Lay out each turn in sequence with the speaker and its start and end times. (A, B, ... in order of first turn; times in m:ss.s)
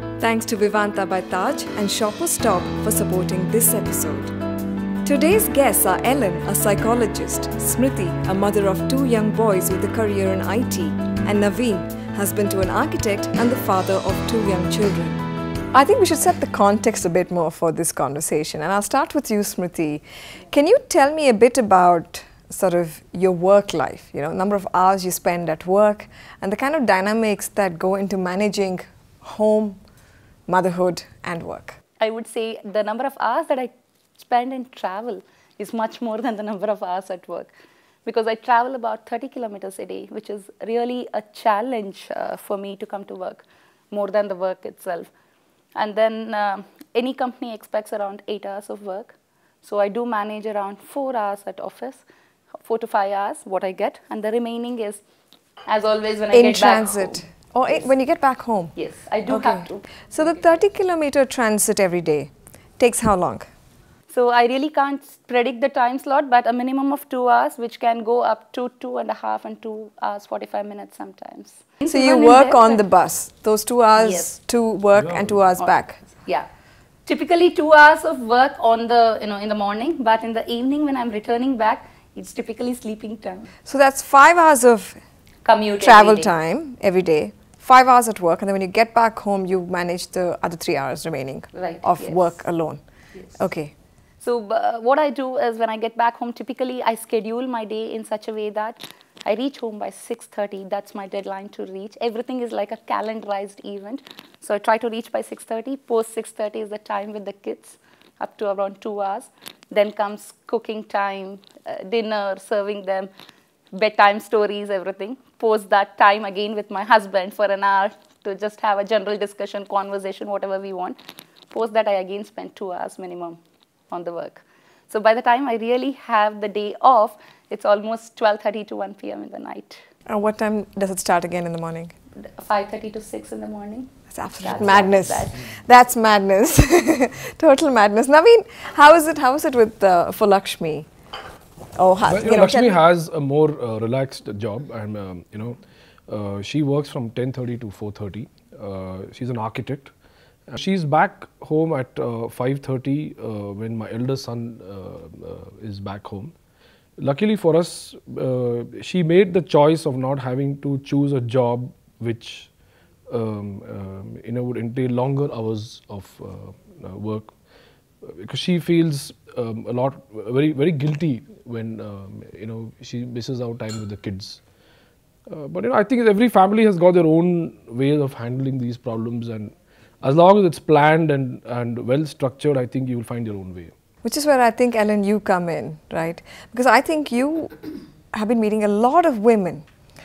0:00.2-0:04.3 A
0:05.0-0:29.8 A
0:30.5-0:31.8 A
0:32.0-0:37.5 B
0:38.0-0:45.1 B
0:45.8-0:52.0 B
0:52.6-0:55.0 B
0:55.7-0:57.2 B
0:56.3-0:58.7 A
0:58.8-0:59.9 B
0:59.3-1:03.5 A
1:04.1-1:12.8 B
1:11.9-1:16.0 A
1:14.0-1:14.3 B
1:15.0-1:15.3 C
1:17.0-1:23.5 B
1:23.6-1:25.0 A
1:25.4-1:26.3 B
1:25.8-1:32.8 A
1:31.5-1:32.4 B
1:33.3-1:33.7 A
1:34.2-1:53.1 B
1:53.7-2:01.0 B
2:01.5-2:03.4 B
2:03.9-2:09.8 B
2:10.0-2:11.9 A
2:12.4-2:15.4 B
2:14.1-2:20.9 A
2:21.8-2:22.8 A
2:22.0-2:29.9 C
2:30.5-2:36.3 C
2:37.0-2:42.5 C
2:43.1-2:47.3 C
2:48.0-2:54.4 C
2:55.3-3:03.7 C
3:04.0-3:07.5 A
3:08.1-3:09.7 A